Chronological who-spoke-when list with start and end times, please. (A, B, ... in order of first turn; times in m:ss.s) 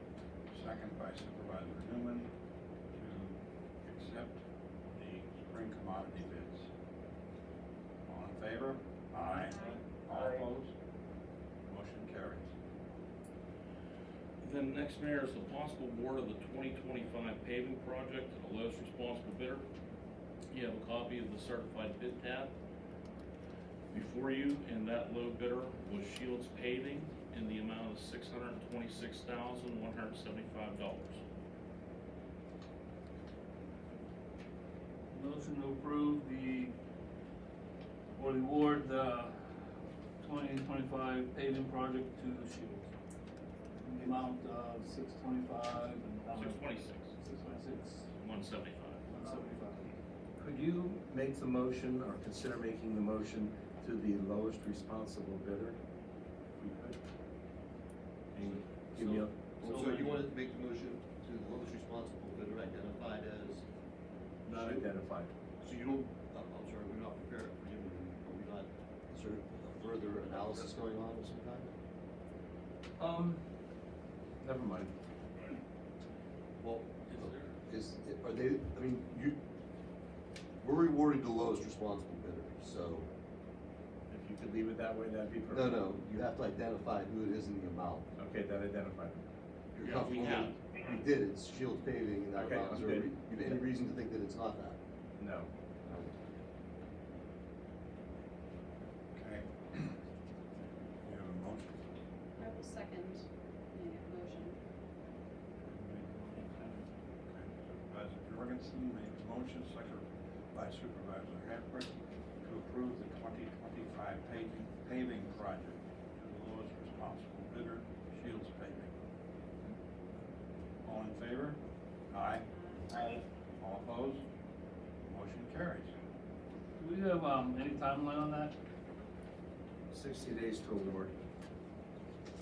0:00.5-0:02.3 A
0:02.9-0:06.7 A
0:08.1-0:10.7 A
0:09.4-0:09.8 B
0:11.6-0:12.4 A
0:14.4-0:19.7 C
0:20.5-0:22.5 C
0:23.9-0:31.2 C
0:35.1-0:36.7 D
0:38.2-0:39.4 D
0:40.2-0:42.9 D
0:43.8-0:46.6 D
0:46.3-0:47.2 C
0:47.2-0:48.0 D
0:48.1-0:49.0 C
0:49.1-0:49.9 D
0:50.4-0:55.8 E
0:56.6-0:57.0 E
0:58.3-0:59.4 E
0:59.6-1:03.6 F
0:59.6-1:00.2 D
1:04.4-1:05.3 E
1:04.5-1:04.8 F
1:05.6-1:11.7 F
1:13.0-1:13.4 E
1:14.4-1:14.9 E
1:16.6-1:19.4 F
1:17.0-1:17.6 C
1:20.6-1:23.1 F
1:24.1-1:25.8 E
1:25.5-1:28.0 F
1:28.2-1:29.3 E
1:29.7-1:34.8 F
1:29.8-1:30.6 C
1:32.3-1:33.6 E
1:35.2-1:35.5 E
1:35.8-1:36.1 F
1:39.1-1:40.0 A
1:41.0-1:41.8 A
1:42.4-1:44.6 B
1:45.7-1:46.8 D
1:47.3-1:58.9 A
2:00.8-2:01.6 A
2:02.1-2:04.2 A
2:05.1-2:05.9 A
2:06.8-2:08.5 D
2:09.9-2:11.1 E